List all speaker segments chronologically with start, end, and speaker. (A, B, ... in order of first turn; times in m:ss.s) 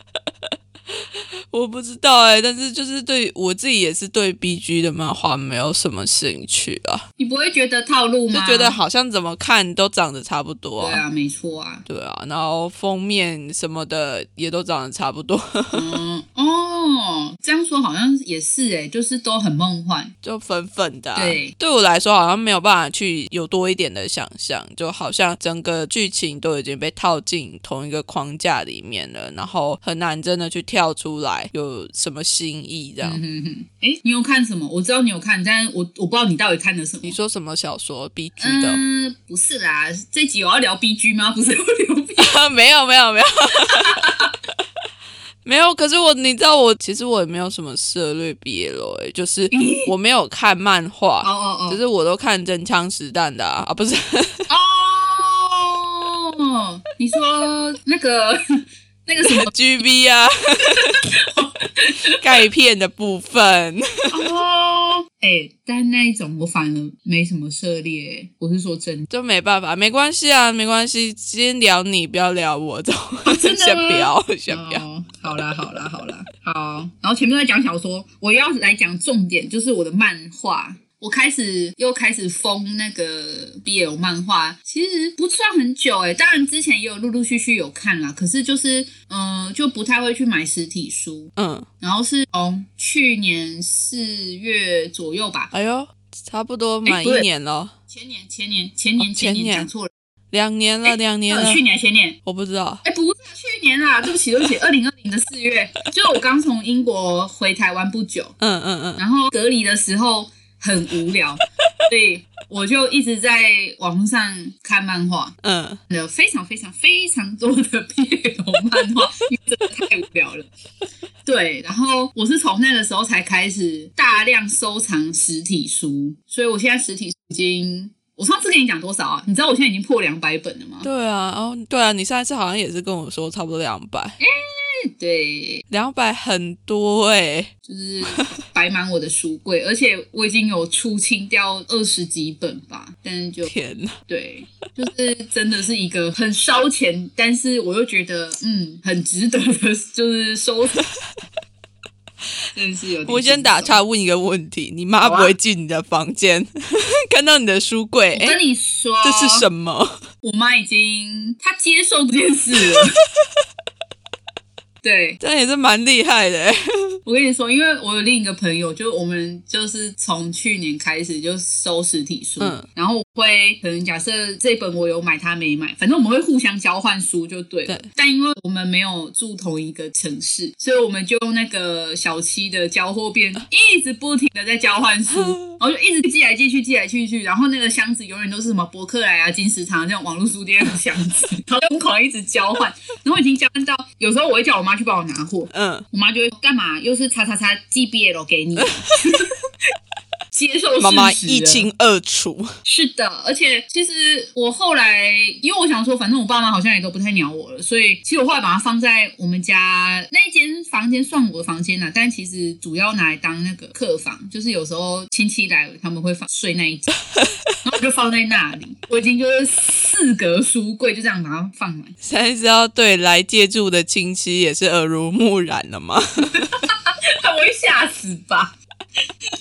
0:00.9-0:07.0 A
0:07.2-0:08.8 B
0:08.3-0:11.0 A
0:10.8-0:11.8 B
0:11.8-0:16.0 A
0:15.7-0:20.1 B
0:20.2-0:33.2 A
0:21.1-0:21.5 B
0:33.0-0:37.2 B
0:37.0-0:38.8 A
0:38.4-0:42.4 B
0:42.2-0:44.1 A
0:43.7-0:44.3 B
0:45.4-0:54.5 A
0:49.5-0:49.9 B
0:51.2-0:51.8 B
0:54.5-0:58.4 B
0:59.0-0:59.5 B
0:59.2-1:01.1 A
1:00.8-1:02.2 B
1:02.1-1:04.2 A
1:04.1-1:09.0 B
1:09.1-1:14.8 A
1:13.2-1:35.5 B
1:31.4-1:31.7 A
1:35.5-1:37.7 A
1:36.8-1:37.2 B
1:37.9-1:39.9 B
1:39.0-1:39.7 A
1:40.3-1:41.6 A
1:40.8-1:42.2 B
1:42.2-1:42.8 A
1:42.8-1:48.3 B
1:48.4-1:49.0 A
1:49.0-1:55.3 B
1:55.4-1:55.8 A
1:55.9-2:00.5 B
2:01.2-2:10.9 B
2:10.8-2:14.2 A
2:14.2-2:15.6 B
2:15.7-2:17.5 A
2:17.6-2:23.5 B
2:18.1-2:18.3 A
2:23.4-2:24.0 A
2:24.1-2:30.8 B
2:32.5-2:33.8 B
2:33.0-2:38.4 A
2:35.0-2:35.3 B
2:38.1-2:39.4 B
2:39.0-2:40.0 A
2:40.2-2:42.9 B
2:44.8-2:45.2 B
2:45.2-2:47.0 A
2:47.0-3:19.3 B
2:52.4-2:52.6 A
3:05.1-3:05.5 A
3:15.5-3:15.8 A
3:18.6-3:19.1 A
3:20.3-3:21.6 B
3:20.8-3:22.5 A
3:22.6-3:36.9 B
3:37.6-3:41.9 B
3:42.0-3:46.5 A
3:46.3-3:48.6 B